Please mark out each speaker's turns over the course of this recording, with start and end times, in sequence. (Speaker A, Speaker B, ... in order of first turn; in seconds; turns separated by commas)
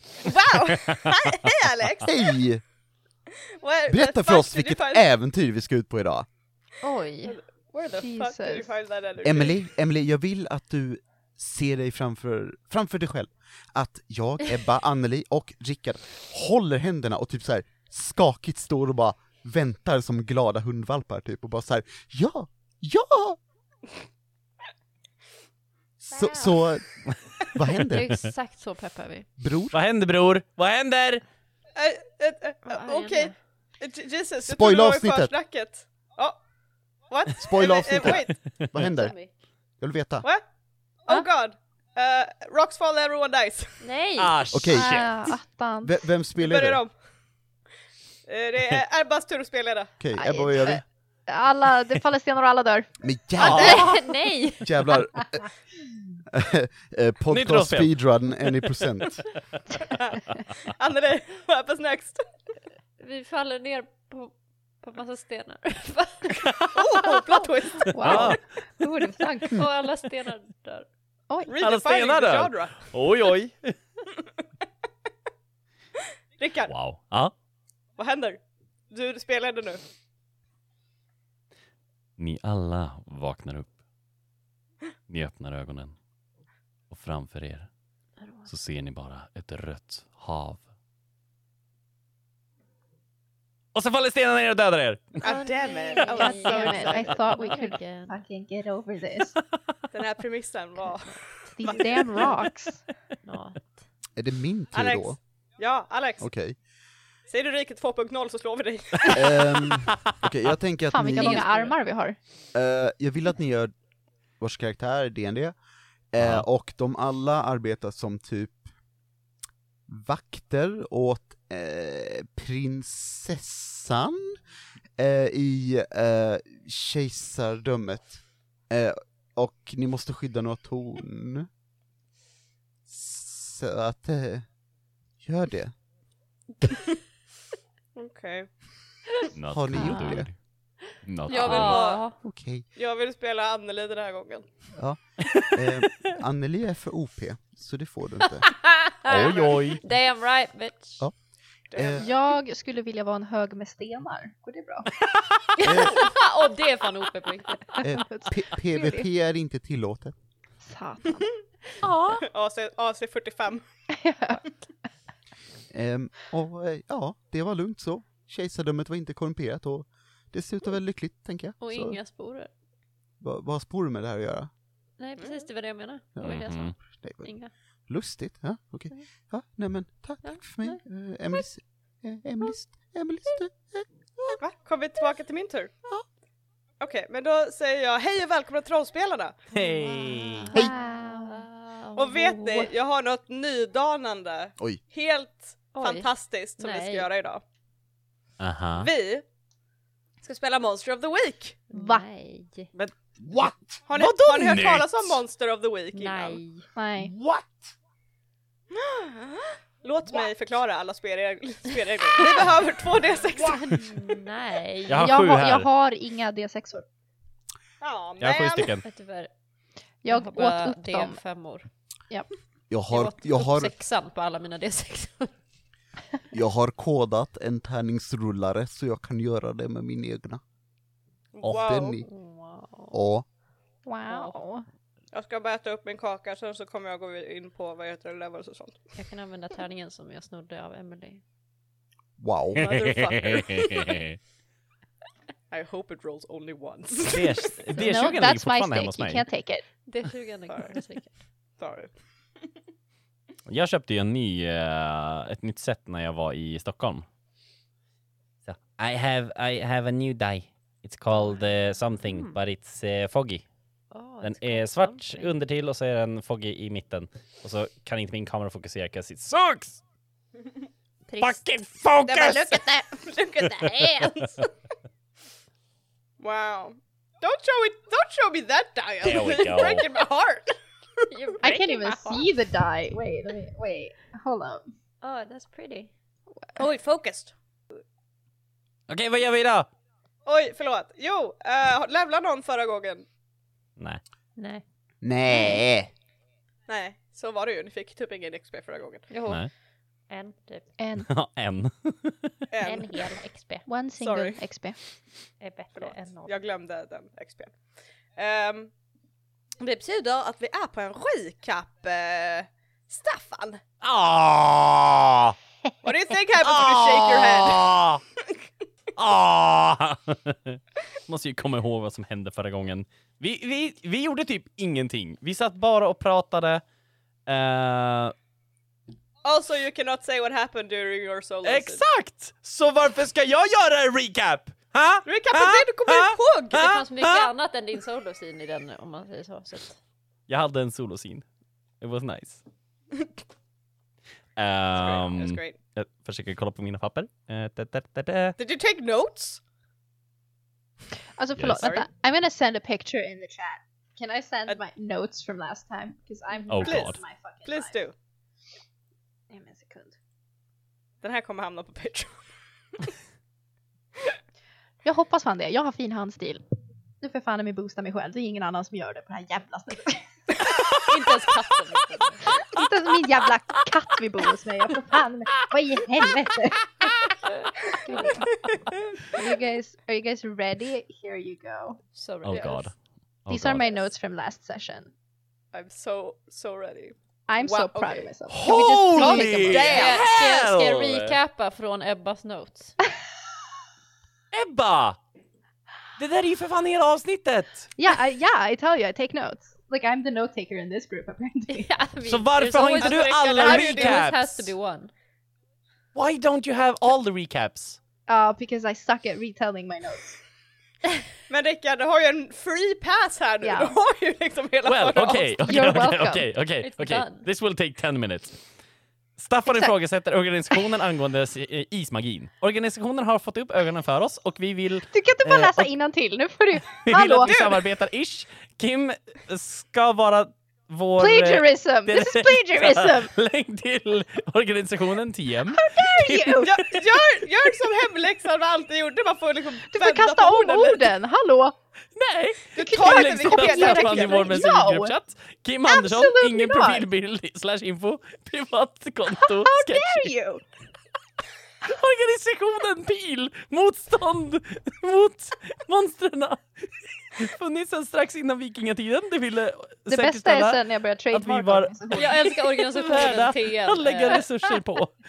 Speaker A: 0.2-2.3, Speaker B: 2.0-2.6, Speaker A: 3.6-5.1, Speaker B: 3.9-6.3, Speaker C: 6.8-7.4, Speaker A: 7.2-9.6, Speaker D: 8.0-8.7, Speaker B: 9.2-23.4, Speaker B: 26.0-28.1, Speaker C: 26.1-26.6, Speaker C: 27.8-29.3, Speaker B: 29.4-29.8, Speaker E: 29.7-31.2, Speaker A: 31.8-36.4, Speaker C: 32.7-33.4, Speaker B: 34.4-35.3, Speaker A: 37.1-38.4, Speaker B: 37.4-39.2, Speaker C: 38.8-39.3, Speaker B: 39.8-40.3, Speaker A: 41.0-43.8, Speaker C: 43.8-44.6, Speaker E: 44.2-45.4, Speaker B: 44.5-45.0, Speaker D: 44.7-46.0, Speaker B: 45.8-46.8, Speaker A: 46.4-46.9, Speaker A: 48.3-49.9, Speaker B: 50.0-50.8, Speaker D: 50.2-52.9, Speaker B: 53.0-54.1, Speaker E: 53.4-53.8, Speaker C: 53.4-55.0, Speaker B: 54.6-55.5, Speaker B: 56.3-59.3, Speaker E: 57.3-57.9, Speaker A: 59.9-62.2, Speaker C: 63.0-66.7, Speaker E: 66.4-66.7, Speaker A: 66.7-68.3, Speaker D: 67.9-69.6, Speaker E: 68.0-68.4, Speaker C: 69.5-70.9, Speaker A: 71.5-72.9, Speaker E: 71.6-73.8, Speaker A: 76.4-76.7, Speaker E: 76.7-77.3, Speaker A: 78.0-79.8, Speaker E: 82.2-83.8, Speaker E: 85.1-86.0, Speaker E: 86.9-87.7, Speaker C: 88.2-88.5, Speaker E: 88.5-90.7, Speaker E: 93.7-95.2, Speaker A: 95.2-97.2, Speaker C: 95.2-98.2, Speaker D: 96.2-99.4, Speaker A: 99.9-102.3, Speaker D: 101.6-102.8, Speaker C: 103.2-103.8, Speaker B: 104.2-105.2, Speaker A: 104.7-106.3, Speaker B: 106.2-106.6, Speaker A: 107.3-109.3, Speaker B: 109.1-111.5, Speaker D: 110.9-112.2, Speaker C: 111.2-111.8, Speaker B: 112.5-113.7, Speaker B: 114.4-115.6, Speaker B: 116.1-118.6, Speaker E: 116.2-116.5, Speaker B: 119.9-124.4, Speaker B: 125.0-131.5, Speaker B: 132.9-134.5, Speaker B: 135.2-135.7, Speaker A: 137.9-138.5, Speaker E: 139.4-140.4, Speaker B: 139.5-140.3, Speaker D: 139.8-140.2, Speaker E: 141.0-141.8, Speaker C: 141.3-142.2, Speaker A: 141.3-142.1, Speaker B: 142.2-142.7, Speaker A: 142.8-144.5, Speaker B: 144.8-148.5, Speaker C: 148.3-151.1, Speaker B: 149.0-149.5, Speaker E: 149.1-149.8, Speaker A: 151.7-152.1, Speaker B: 151.7-152.1, Speaker D: 152.0-154.9, Speaker C: 155.6-158.0, Speaker B: 155.6-156.1, Speaker B: 157.8-160.2, Speaker D: 158.0-159.1, Speaker D: 160.6-161.5, Speaker C: 161.8-162.2, Speaker A: 162.2-163.6, Speaker D: 163.9-164.5, Speaker B: 165.7-172.0, Speaker C: 171.6-172.5, Speaker B: 173.2-174.5, Speaker C: 175.0-177.5, Speaker A: 175.2-175.4, Speaker B: 176.2-177.3, Speaker E: 176.2-176.7, Speaker B: 177.9-184.4, Speaker C: 180.2-180.8, Speaker A: 184.4-185.7, Speaker A: 186.8-189.4, Speaker E: 189.5-190.5, Speaker C: 189.6-192.7, Speaker D: 190.5-191.4, Speaker A: 192.0-197.4, Speaker C: 195.7-197.1, Speaker E: 198.4-198.9, Speaker A: 198.8-199.2, Speaker A: 200.2-201.6, Speaker C: 201.7-202.7, Speaker D: 201.7-202.1, Speaker E: 202.7-205.2, Speaker A: 203.9-206.4, Speaker C: 205.9-206.7, Speaker D: 206.8-207.1, Speaker E: 207.0-207.7, Speaker A: 208.7-213.7, Speaker C: 213.3-215.2, Speaker E: 214.9-215.7, Speaker D: 215.0-216.9, Speaker A: 217.8-218.7, Speaker E: 218.2-218.8, Speaker C: 218.8-219.3, Speaker D: 220.0-221.2, Speaker C: 220.1-221.7, Speaker B: 222.7-223.7, Speaker C: 222.9-225.3, Speaker B: 226.3-230.4, Speaker A: 231.3-232.0, Speaker B: 231.4-232.1, Speaker C: 232.0-233.0, Speaker B: 232.9-233.2, Speaker D: 233.8-234.7, Speaker C: 234.1-234.4, Speaker A: 235.1-238.8, Speaker C: 239.0-241.2, Speaker B: 242.2-242.7, Speaker A: 242.6-243.9, Speaker E: 242.7-244.2, Speaker A: 245.5-247.5, Speaker E: 247.1-249.2, Speaker D: 247.8-249.7, Speaker C: 249.8-251.1, Speaker A: 250.5-250.8, Speaker A: 251.6-251.9, Speaker E: 253.5-257.1, Speaker E: 258.5-263.4, Speaker C: 261.1-261.5, Speaker C: 262.1-262.4, Speaker C: 263.9-265.4, Speaker E: 264.2-269.8, Speaker C: 271.1-271.4, Speaker E: 271.2-272.6, Speaker A: 272.1-274.4, Speaker E: 273.5-274.1, Speaker A: 276.2-280.6, Speaker E: 279.0-279.9, Speaker C: 281.1-282.4, Speaker D: 281.4-284.7, Speaker C: 285.0-285.9, Speaker A: 286.6-287.4, Speaker E: 288.9-289.7, Speaker A: 290.3-293.1, Speaker C: 294.4-294.6, Speaker B: 295.0-295.9, Speaker A: 296.7-299.1, Speaker C: 299.1-299.5, Speaker C: 300.1-300.7, Speaker D: 300.8-301.1, Speaker E: 301.0-302.3, Speaker A: 302.5-303.0, Speaker C: 302.6-303.7, Speaker D: 303.7-304.8, Speaker A: 304.0-304.4, Speaker C: 305.4-306.4, Speaker A: 305.8-307.5, Speaker A: 308.2-308.7, Speaker A: 309.6-313.6, Speaker E: 313.8-315.4, Speaker A: 315.8-317.7, Speaker E: 316.4-318.0, Speaker E: 319.0-326.6, Speaker E: 327.3-328.1, Speaker A: 329.2-331.8, Speaker E: 331.4-337.3, Speaker A: 335.1-336.8, Speaker C: 336.5-339.8, Speaker E: 340.3-341.2, Speaker E: 341.8-342.4, Speaker E: 344.4-348.4, Speaker A: 344.7-345.6, Speaker A: 348.4-349.4, Speaker D: 351.2-357.8, Speaker E: 351.4-351.8, Speaker A: 351.6-351.9, Speaker E: 356.5-357.0, Speaker A: 356.6-357.9, Speaker D: 359.3-360.0, Speaker A: 361.0-362.2, Speaker D: 364.8-366.4, Speaker D: 367.0-370.0, Speaker C: 370.8-372.2, Speaker D: 372.4-376.8, Speaker D: 377.6-381.8, Speaker C: 381.9-382.7, Speaker E: 382.2-382.8, Speaker E: 383.3-383.6, Speaker D: 383.3-384.9, Speaker A: 385.5-388.1, Speaker D: 387.3-389.8, Speaker E: 388.3-391.2, Speaker A: 388.9-390.1, Speaker C: 389.7-392.8, Speaker E: 394.3-395.0, Speaker E: 396.0-397.7, Speaker D: 397.8-401.7, Speaker C: 401.5-404.9, Speaker E: 402.1-404.5, Speaker A: 402.8-404.0, Speaker E: 405.9-407.8, Speaker D: 408.1-410.2, Speaker A: 411.3-415.8, Speaker D: 413.4-413.8, Speaker E: 414.7-418.4, Speaker D: 415.4-416.3, Speaker C: 416.6-417.3, Speaker E: 419.2-425.7, Speaker D: 419.5-419.7, Speaker D: 424.9-427.6, Speaker E: 426.7-436.8, Speaker D: 431.0-433.1, Speaker D: 435.5-436.8, Speaker A: 436.4-441.0, Speaker D: 439.7-441.6, Speaker E: 442.0-450.1, Speaker A: 442.6-444.4, Speaker D: 442.6-444.9, Speaker D: 445.7-446.9, Speaker D: 449.2-450.4, Speaker E: 451.6-464.9, Speaker D: 459.9-462.3, Speaker C: 461.9-464.5